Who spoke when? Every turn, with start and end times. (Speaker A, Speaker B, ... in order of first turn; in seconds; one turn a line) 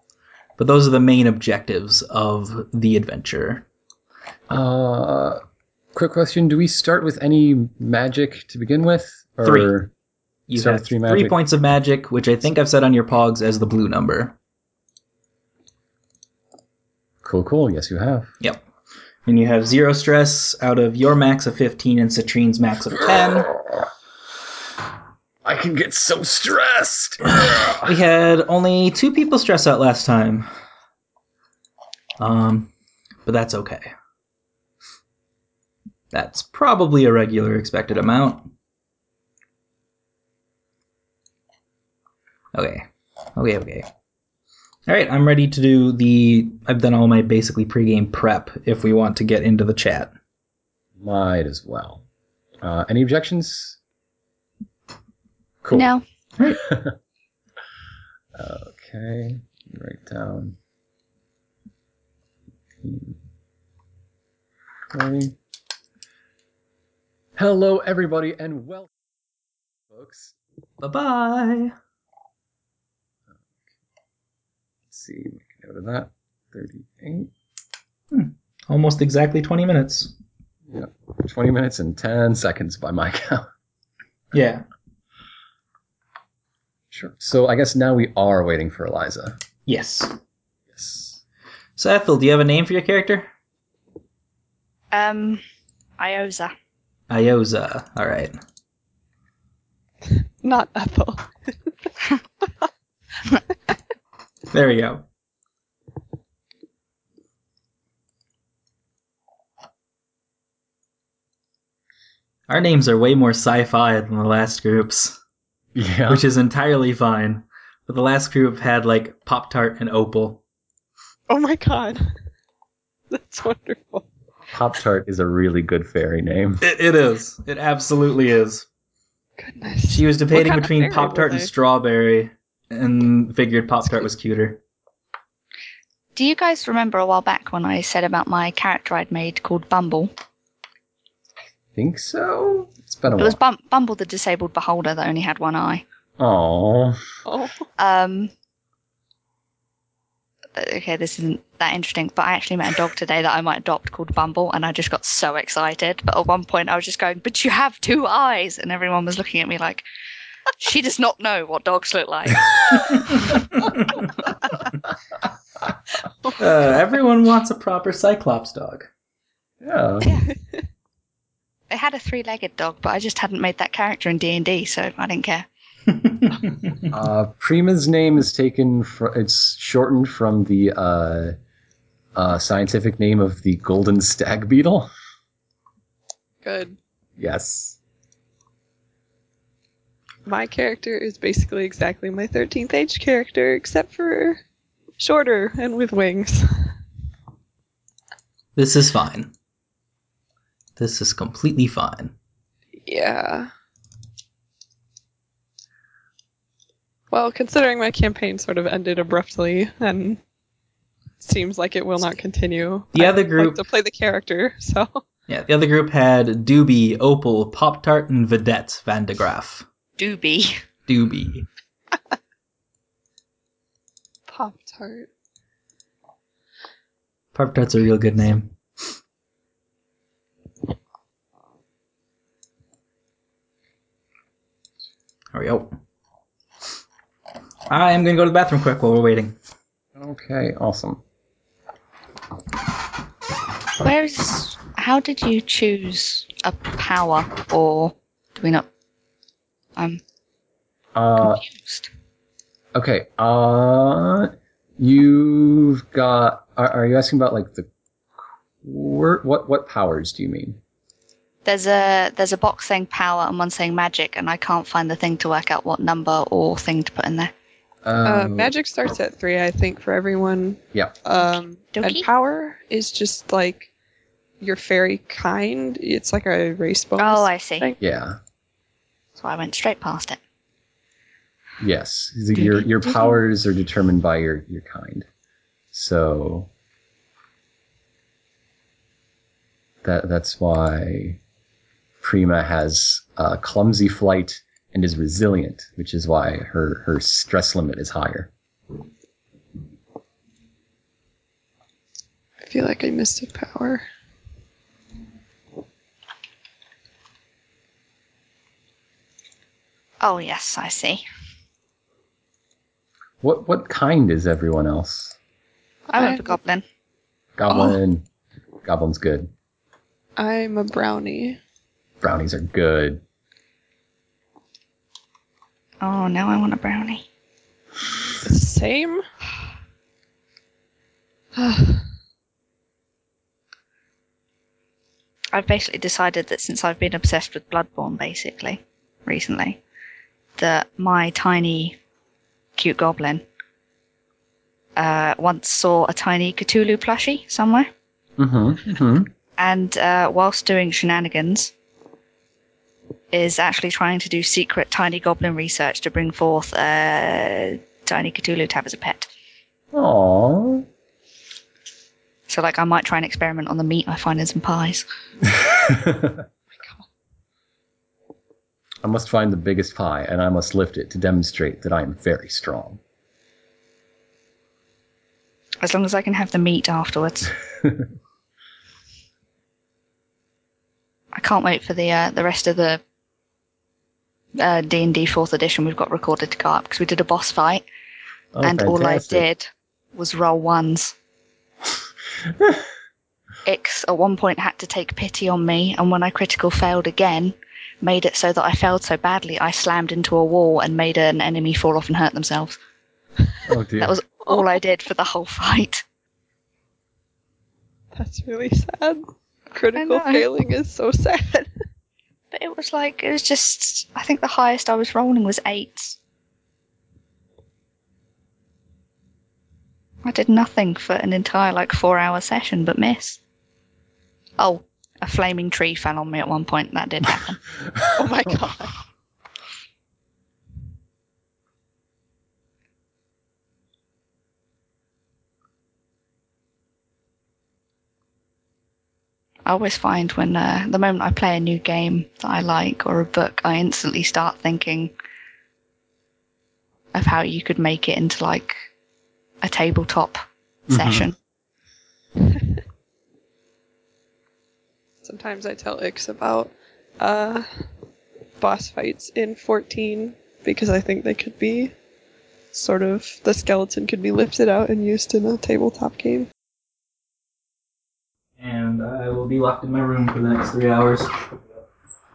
Speaker A: 0.6-3.6
Speaker B: 4.5-5.4
Speaker B: 5.9-9.9
Speaker A: 9.4-9.7
Speaker A: 10.5-14.3
Speaker B: 10.5-11.4
Speaker B: 17.2-18.3
Speaker A: 19.2-23.5
Speaker B: 22.9-23.9
Speaker B: 25.4-27.9
Speaker A: 27.3-30.5
Speaker A: 32.2-32.7
Speaker A: 33.2-33.9
Speaker A: 36.1-38.5
Speaker A: 42.5-43.9
Speaker A: 44.9-50.1
Speaker B: 51.0-52.0
Speaker B: 52.6-53.8
Speaker B: 55.6-55.9
Speaker C: 55.7-56.0
Speaker B: 56.6-56.9
Speaker B: 58.3-60.6
Speaker B: 62.8-63.1
Speaker B: 64.9-65.3
Speaker B: 67.4-68.9
Speaker B: 69.9-70.3
Speaker A: 70.8-71.7
Speaker B: 74.9-77.3
Speaker A: 78.1-80.1
Speaker B: 80.7-83.5
Speaker A: 84.3-84.6
Speaker B: 86.9-89.4
Speaker A: 89.7-90.1
Speaker B: 90.7-91.2
Speaker A: 91.8-93.3
Speaker C: 94.9-95.4
Speaker C: 96.0-96.5
Speaker A: 97.1-98.4
Speaker D: 100.1-101.7
Speaker A: 104.5-105.0
Speaker A: 112.5-115.2
Speaker B: 115.7-116.2
Speaker A: 116.1-120.4
Speaker D: 121.3-122.1
Speaker D: 123.1-124.0
Speaker B: 124.5-126.6
Speaker A: 126.6-128.7
Speaker D: 129.4-131.5
Speaker A: 129.9-134.6
Speaker C: 136.1-140.1
Speaker B: 141.7-143.4
Speaker C: 143.2-145.8
Speaker B: 146.2-147.0
Speaker D: 147.2-147.7
Speaker C: 147.8-148.3
Speaker C: 150.6-159.8
Speaker C: 160.6-163.3
Speaker C: 163.9-164.2
Speaker A: 166.4-168.9
Speaker B: 169.6-170.1
Speaker C: 171.7-175.4
Speaker A: 175.9-176.8
Speaker B: 176.9-181.3
Speaker B: 182.1-184.9
Speaker D: 186.4-186.8
Speaker B: 187.2-187.8
Speaker D: 190.2-194.4
Speaker D: 195.0-196.7
Speaker A: 198.6-199.3
Speaker A: 200.8-202.1
Speaker D: 202.8-203.5
Speaker D: 207.1-210.2
Speaker D: 211.2-215.0
Speaker A: 212.9-213.6
Speaker A: 215.3-219.7
Speaker C: 220.0-220.6
Speaker A: 220.9-221.5
Speaker D: 224.3-225.1
Speaker A: 227.3-228.5
Speaker A: 235.3-235.7
Speaker A: 237.7-239.3
Speaker B: 239.9-241.0
Speaker C: 243.8-248.7
Speaker B: 250.9-251.4
Speaker C: 251.2-251.9
Speaker B: 252.7-257.7
Speaker B: 258.6-260.6
Speaker C: 261.4-267.3
Speaker B: 267.8-268.5
Speaker D: 268.0-273.7
Speaker C: 271.2-272.1
Speaker D: 274.4-277.8
Speaker C: 277.0-277.7
Speaker B: 277.8-278.2
Speaker C: 279.2-280.2
Speaker B: 281.6-285.1
Speaker C: 282.4-283.1
Speaker B: 285.7-286.5
Speaker B: 289.8-291.2
Speaker B: 292.0-298.3
Speaker D: 302.4-303.8
Speaker C: 310.0-311.0
Speaker B: 313.2-315.1
Speaker C: 315.9-316.6
Speaker D: 315.9-316.3
Speaker B: 317.4-318.1
Speaker B: 318.6-319.3
Speaker D: 320.2-321.4
Speaker B: 322.0-323.0
Speaker C: 325.8-327.0
Speaker D: 328.2-329.0
Speaker D: 331.4-331.8
Speaker C: 335.3-339.6
Speaker C: 340.4-341.8
Speaker C: 342.6-343.2
Speaker C: 344.8-347.7
Speaker B: 348.2-349.1
Speaker C: 349.4-351.5
Speaker C: 353.1-359.1
Speaker B: 359.7-360.6
Speaker C: 362.3-364.8
Speaker B: 365.3-366.2
Speaker B: 368.8-372.8
Speaker C: 375.6-377.3
Speaker C: 381.1-382.8
Speaker C: 384.4-387.6
Speaker B: 388.3-389.2
Speaker C: 388.4-390.9
Speaker B: 392.4-392.6
Speaker C: 393.4-402.6
Speaker B: 403.4-404.0
Speaker C: 403.8-405.8
Speaker D: 407.9-409.0
Speaker D: 409.5-411.5
Speaker C: 409.7-410.2
Speaker C: 412.3-416.0
Speaker C: 420.0-423.2
Speaker C: 424.4-427.4
Speaker D: 427.9-428.7
Speaker C: 439.4-444.9
Speaker C: 446.9-448.5
Speaker C: 449.4-451.1
Speaker B: 450.7-451.1
Speaker D: 455.0-457.4
Speaker D: 458.4-461.7
Speaker D: 462.5-466.3
Speaker A: 468.4-471.1